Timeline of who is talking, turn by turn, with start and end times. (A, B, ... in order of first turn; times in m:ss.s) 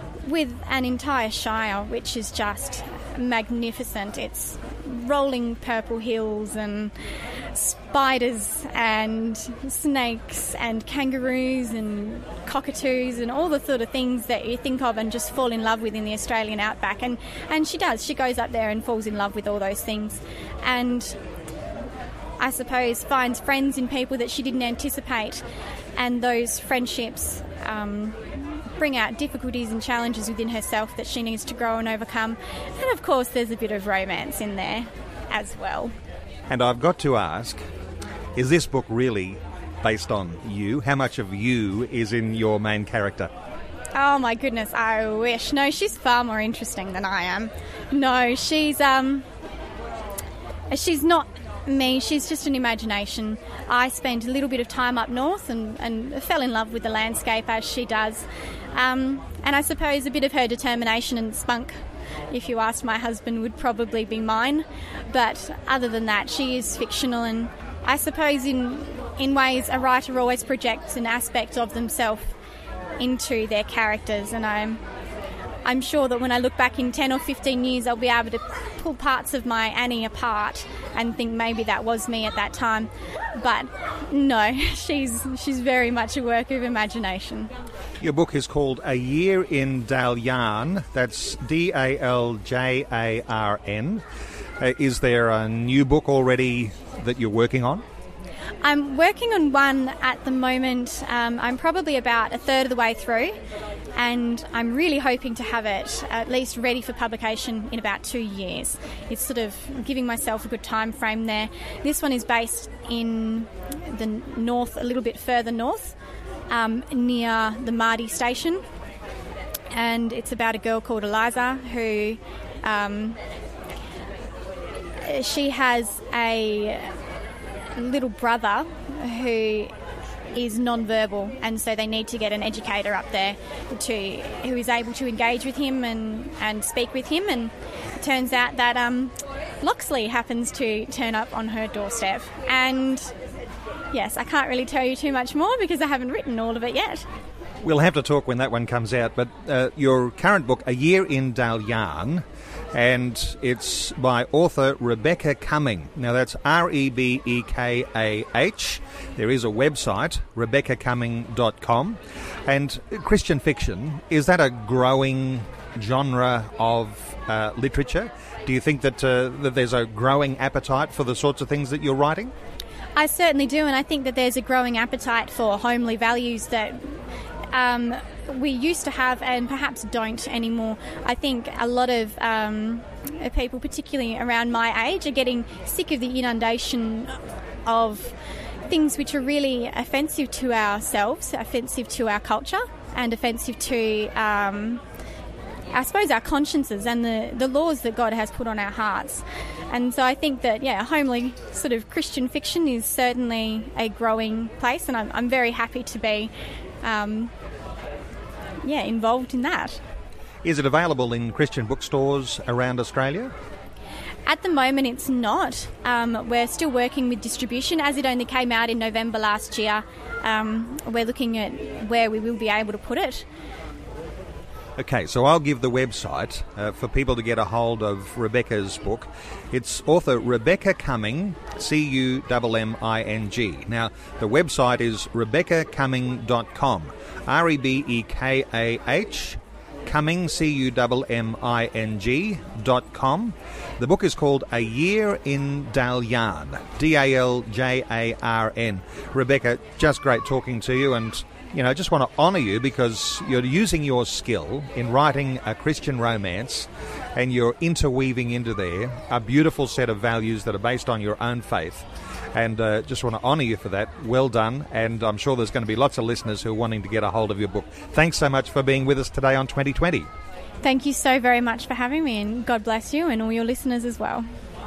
0:00.2-0:06.9 A
0:07.5-0:21.2 A
0:22.4-0:25.4 A
0:26.0-0:35.9 A
0:36.5-0:37.6 B
0:38.4-0:43.3 B
0:43.9-0:49.2 A
0:50.7-1:01.8 A
1:02.3-1:12.3 A
1:13.0-1:14.8 A
1:15.6-1:27.5 A
1:28.0-1:34.0 B
1:34.6-1:37.8 B
1:38.6-1:43.4 A
1:43.9-1:55.9 A
1:56.5-1:58.6 A
1:59.7-2:03.2 A
2:05.0-2:06.9 A
2:07.8-2:09.7 A
2:10.3-2:23.1 A
2:23.9-2:27.0 A
2:27.6-2:52.3 B
2:53.0-2:57.0 A
2:57.5-3:08.2 A
3:08.7-3:14.8 A
3:15.7-3:26.3 A
3:26.8-3:27.3 A
3:28.6-3:29.8 A
3:30.4-3:33.3 B
3:34.2-3:43.2 A
3:44.8-4:30.1 B
4:30.6-4:34.2 A